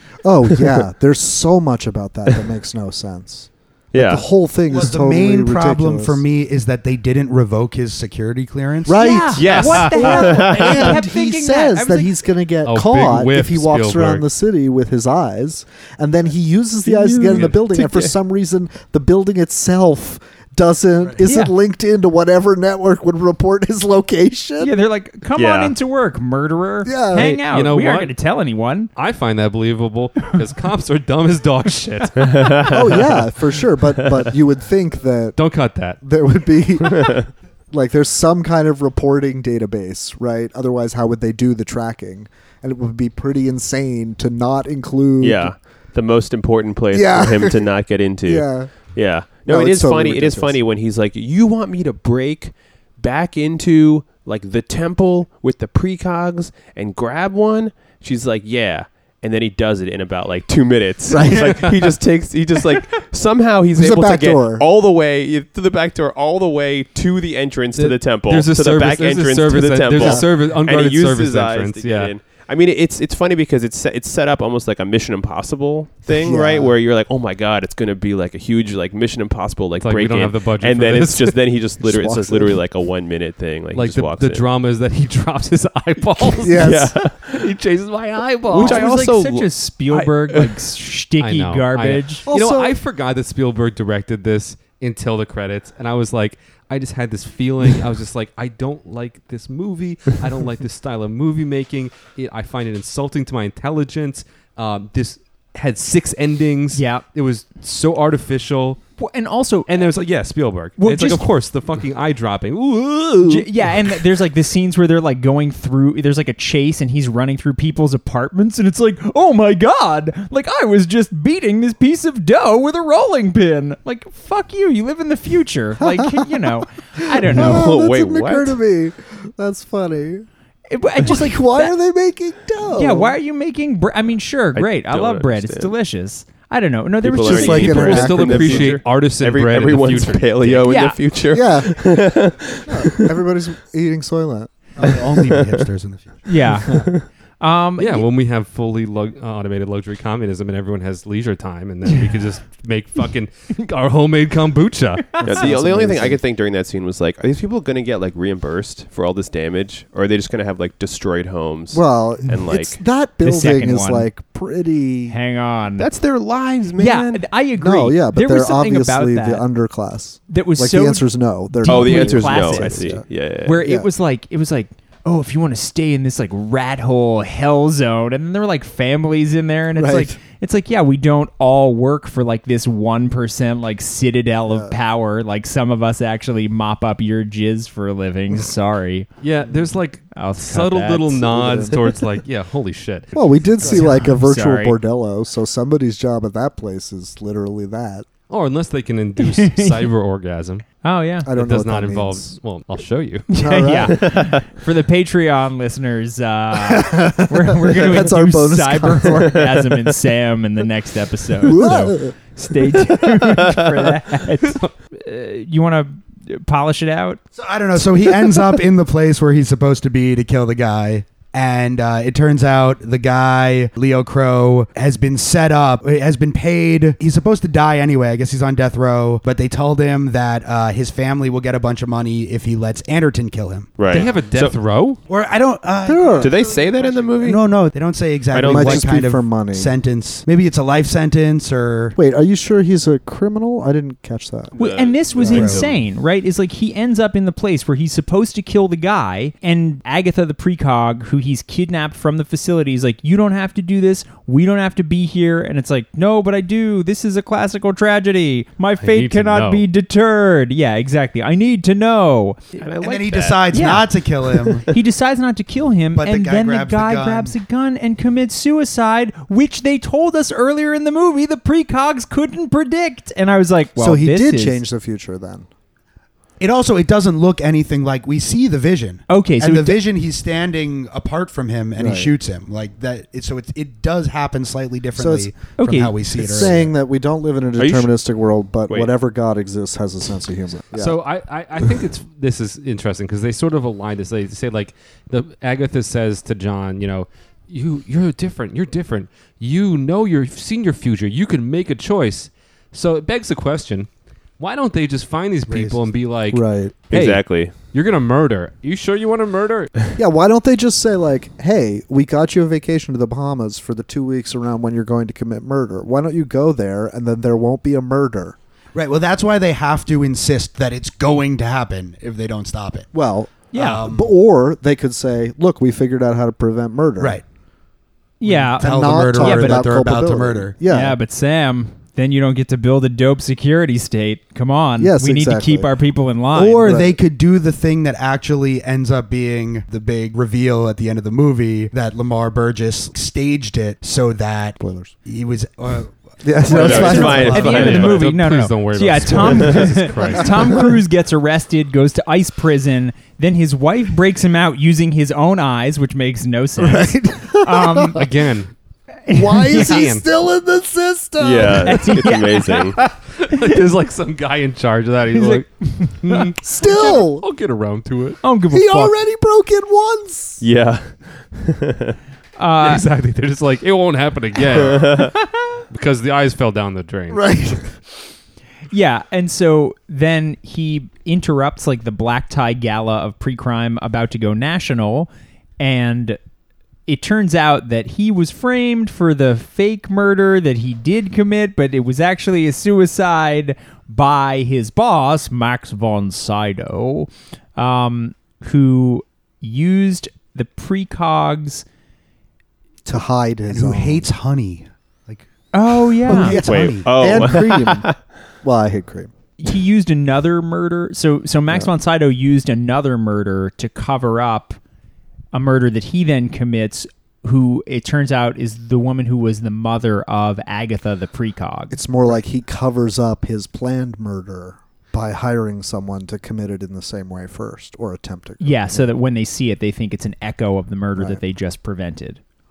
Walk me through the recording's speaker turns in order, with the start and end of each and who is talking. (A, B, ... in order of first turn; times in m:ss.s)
0:00.2-0:06.2 A
0:03.9-0:04.2 B
0:04.7-0:09.6 C
0:08.8-0:24.7 A
0:08.9-0:12.1 D
0:09.4-0:10.9 B
0:12.6-0:14.2 E
0:16.8-0:18.1 B
0:17.3-0:17.6 E
0:21.2-0:21.5 D
0:24.6-0:28.9 D
0:25.4-0:25.7 B
0:26.8-0:27.4 A
0:27.1-0:28.1 E
0:29.0-0:32.7 E
0:32.2-0:32.8 B
0:32.7-0:35.4 A
0:35.4-0:36.0 E
0:36.0-0:45.5 A
0:36.9-0:37.3 B
0:45.2-1:24.4 B
0:46.9-0:50.6 A
1:01.1-1:01.6 A
1:03.7-1:04.7 A
1:07.8-1:12.2 E
1:10.0-1:10.3 A
1:16.1-1:16.8 A
1:19.8-1:21.5 E
1:21.8-1:22.6 A
1:23.7-1:28.9 E
1:26.4-1:26.9 A
1:26.4-1:27.4 B
1:28.5-1:32.2 D
1:28.5-1:30.5 B
1:31.2-1:48.8 E
1:32.3-1:32.8 A
1:46.7-1:47.0 D
1:49.0-1:49.7 D
1:49.7-1:54.0 E
1:50.8-1:51.3 D
1:53.2-2:07.7 D
2:05.8-2:06.4 A
2:07.2-2:10.3 A
2:07.3-2:08.6 B
2:10.7-2:11.7 D
2:11.0-2:13.2 A
2:12.7-2:18.1 D
2:14.5-2:15.7 B
2:17.0-2:23.1 B
2:17.2-2:18.8 A
2:17.4-2:20.7 E
2:20.6-2:21.0 D
2:21.3-2:22.0 A
2:22.7-2:25.1 A
2:24.8-2:26.2 C
2:25.3-2:25.6 B
2:26.2-2:28.0 D
2:26.7-2:27.0 B
2:27.8-2:35.3 E
2:35.2-2:42.8 B
2:35.2-2:36.2 A
2:41.7-2:45.2 A
2:43.2-2:44.1 D
2:45.1-2:45.9 D
2:45.8-2:47.2 B
2:46.8-2:49.4 D
2:47.6-2:53.0 A
2:50.3-3:09.1 D
2:51.6-2:53.6 B
2:53.6-2:53.9 A
2:59.7-3:00.2 A
3:04.5-3:04.8 A
3:09.2-3:13.8 E
3:10.1-3:11.2 D
3:11.2-3:11.8 A
3:13.1-3:18.1 A
3:13.6-3:14.8 D
3:18.3-3:20.6 E
3:19.2-3:19.9 D
3:20.8-3:21.3 D
3:21.2-3:22.3 A
3:21.3-3:23.3 E
3:23.3-3:37.2 D
3:23.4-3:24.1 A
3:23.9-3:24.4 B
3:26.6-3:29.4 A
3:31.4-3:32.2 A
3:37.4-3:54.0 C
3:53.8-3:54.6 B
3:53.9-3:55.0 E
3:55.1-4:02.0 C
3:55.8-3:56.5 A
3:56.1-3:57.4 B
3:58.3-3:58.9 B
3:58.4-3:59.7 A
4:02.0-4:04.5 A
4:04.5-4:05.7 B
4:04.6-4:22.6 D
4:05.2-4:05.6 A
4:05.3-4:05.6 C
4:18.8-4:19.6 E
4:22.6-4:23.7 B
4:22.8-4:24.7 C
4:23.5-4:23.9 D
4:24.5-4:34.6 D
4:25.9-4:27.3 C
4:33.8-4:35.5 A
4:36.4-4:46.7 C
4:39.1-4:39.8 D
4:41.8-4:42.1 A
4:45.0-4:45.3 A
4:45.6-4:45.9 D
4:46.1-4:51.0 A
4:47.6-4:47.9 B
4:50.7-5:09.7 E
5:05.5-5:05.8 C
5:06.3-5:06.7 A
5:06.9-5:07.5 B
5:10.0-5:18.4 A
5:18.7-5:22.9 C
5:22.9-5:27.2 A
5:23.5-5:23.8 D
5:23.5-5:24.1 C
5:28.2-5:29.6 D
5:28.3-5:31.0 A
5:28.5-5:30.5 C
5:30.7-5:36.7 D
5:34.8-5:35.7 A
5:36.3-5:47.8 C
5:36.6-5:37.0 A
5:44.6-5:44.9 A
5:46.2-5:47.6 A
5:46.4-5:48.0 B
5:46.5-5:58.0 D
5:47.4-5:50.7 E
5:49.9-5:50.7 A
5:56.6-5:58.0 A
5:57.9-5:58.5 E
5:59.1-5:59.8 D
5:59.1-6:02.1 A
5:59.5-6:00.0 E
6:01.2-6:02.8 B
6:01.6-6:02.7 D
6:02.8-6:08.2 E
6:05.1-6:07.0 D
6:06.4-6:07.2 A
6:08.2-6:09.0 D
6:08.5-6:10.4 A
6:10.4-6:12.0 B
6:12.4-6:12.8 D
6:12.6-6:17.4 E
6:14.7-6:15.1 B
6:17.1-6:17.7 A
6:18.7-6:26.2 D
6:26.9-6:41.6 D
6:42.8-6:44.1 A
6:43.5-6:47.3 C
6:45.5-6:46.4 D
6:46.0-6:49.1 A
6:46.4-6:48.0 B
6:49.4-6:54.6 D
6:55.3-7:01.8 D
7:01.7-7:08.9 A
7:08.4-7:12.2 D